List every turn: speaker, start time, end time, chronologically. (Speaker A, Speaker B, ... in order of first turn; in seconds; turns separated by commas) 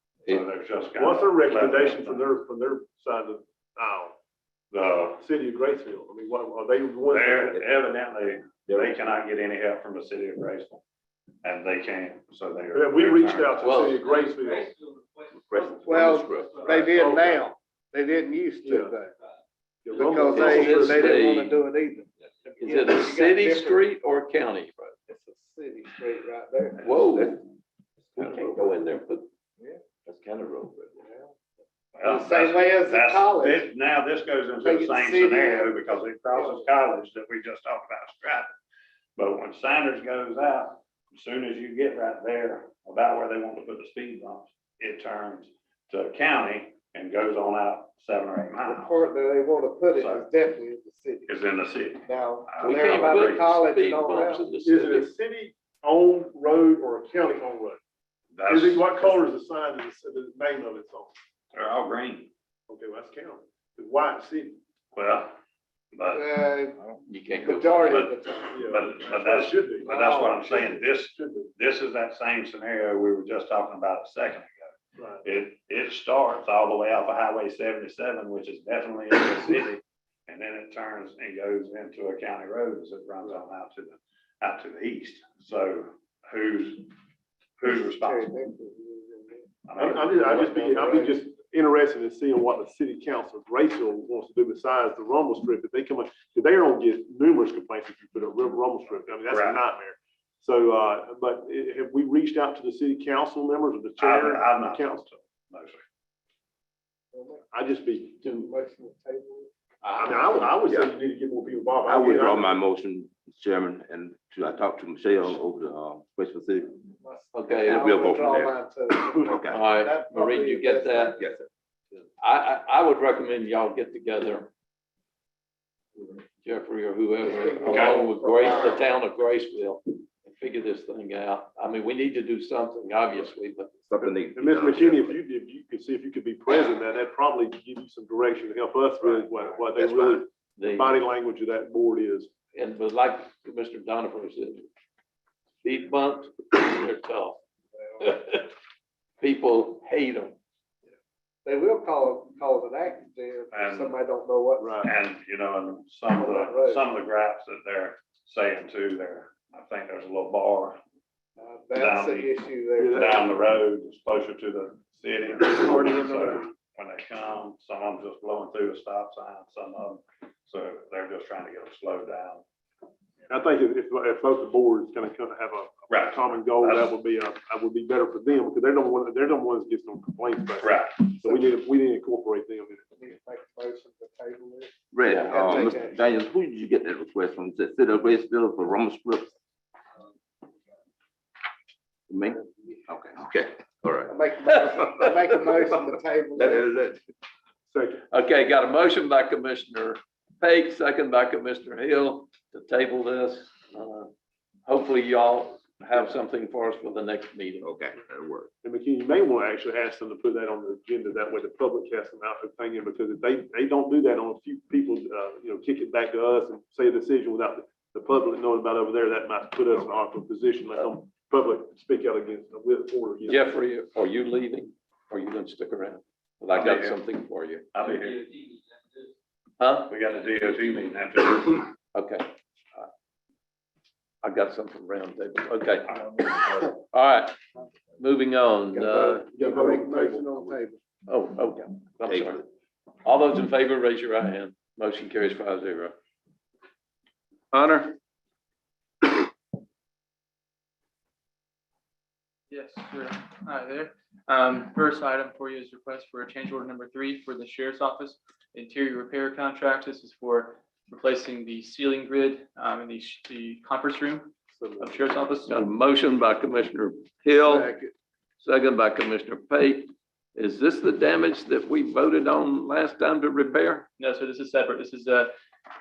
Speaker A: 0.2-2.2, Speaker B: 1.0-4.2, Speaker A: 4.7-5.2, Speaker B: 5.2-7.6, Speaker A: 7.1-10.8, Speaker C: 8.7-8.9, Speaker A: 11.4-13.9, Speaker B: 12.7-14.7, Speaker D: 13.6-14.0, Speaker C: 15.3-17.0, Speaker E: 15.8-19.1, Speaker B: 16.8-17.5, Speaker B: 18.6-19.0, Speaker B: 19.9-21.2, Speaker E: 19.9-22.1, Speaker D: 20.3-21.6, Speaker D: 22.6-24.9, Speaker E: 22.6-23.8, Speaker E: 25.1-27.0, Speaker D: 26.8-27.4, Speaker C: 27.1-27.4, Speaker C: 28.2-28.7, Speaker D: 28.2-29.3, Speaker C: 29.8-31.1, Speaker E: 31.0-31.3, Speaker A: 31.9-38.5, Speaker E: 32.0-33.7, Speaker E: 34.6-36.6, Speaker A: 39.2-49.0, Speaker E: 48.6-51.3, Speaker A: 50.0-50.3, Speaker A: 51.3-53.5, Speaker E: 52.0-54.5, Speaker D: 52.6-55.1, Speaker B: 54.6-57.8, Speaker A: 58.3-59.2, Speaker B: 58.5-61.1, Speaker A: 61.5-62.3, Speaker B: 62.7-64.6, Speaker A: 64.9-65.3, Speaker A: 65.9-66.3, Speaker E: 66.1-66.8, Speaker D: 67.1-68.1, Speaker E: 67.4-68.9, Speaker A: 67.9-68.1, Speaker B: 68.5-71.5, Speaker A: 68.7-86.9, Speaker E: 69.8-70.5, Speaker B: 75.0-75.2, Speaker A: 87.6-88.3, Speaker E: 87.7-91.3, Speaker A: 89.7-90.2, Speaker B: 89.8-105.0, Speaker A: 99.3-99.6, Speaker A: 104.0-105.8, Speaker E: 107.1-107.4, Speaker B: 107.5-108.2, Speaker E: 108.2-109.5, Speaker B: 109.9-112.6, Speaker C: 111.9-116.8, Speaker E: 117.0-121.4, Speaker D: 117.3-118.0, Speaker C: 117.6-119.6, Speaker D: 119.5-121.2, Speaker C: 121.2-121.5, Speaker D: 122.2-124.5, Speaker D: 126.4-133.7, Speaker E: 127.2-128.8, Speaker C: 133.9-135.2, Speaker B: 134.0-142.3, Speaker C: 139.8-140.1, Speaker D: 140.6-141.0, Speaker D: 142.5-144.7, Speaker D: 145.6-147.4, Speaker D: 148.0-148.5, Speaker D: 149.2-150.4, Speaker E: 151.4-154.8, Speaker A: 153.5-154.0, Speaker B: 154.6-154.9, Speaker A: 154.8-160.8, Speaker E: 156.2-156.8, Speaker E: 161.4-163.2, Speaker A: 161.8-162.3, Speaker B: 162.8-163.2, Speaker A: 162.9-172.4, Speaker E: 165.5-166.4, Speaker B: 173.3-183.0, Speaker A: 175.9-176.9, Speaker A: 180.6-181.1, Speaker E: 181.2-181.5, Speaker E: 183.0-186.0, Speaker C: 184.9-189.3, Speaker D: 185.1-185.7, Speaker C: 192.1-194.2, Speaker E: 192.3-192.8, Speaker E: 194.1-196.7, Speaker D: 194.4-195.4, Speaker C: 196.3-197.0, Speaker B: 197.7-198.0, Speaker D: 198.1-204.1, Speaker D: 204.7-207.7, Speaker C: 207.6-208.5, Speaker B: 208.6-223.5, Speaker D: 223.2-227.7, Speaker A: 226.5-227.1, Speaker A: 227.7-228.2, Speaker D: 229.6-229.9, Speaker A: 229.9-231.7, Speaker D: 231.9-232.8, Speaker D: 234.2-237.4, Speaker D: 238.0-239.3, Speaker E: 238.7-240.8, Speaker B: 239.3-240.3, Speaker D: 241.1-242.4, Speaker C: 242.1-242.4, Speaker D: 243.1-245.9, Speaker D: 247.5-248.0, Speaker F: 252.5-265.6, Speaker D: 265.5-267.7, Speaker E: 267.3-267.9, Speaker D: 268.4-273.9, Speaker F: 274.0-275.3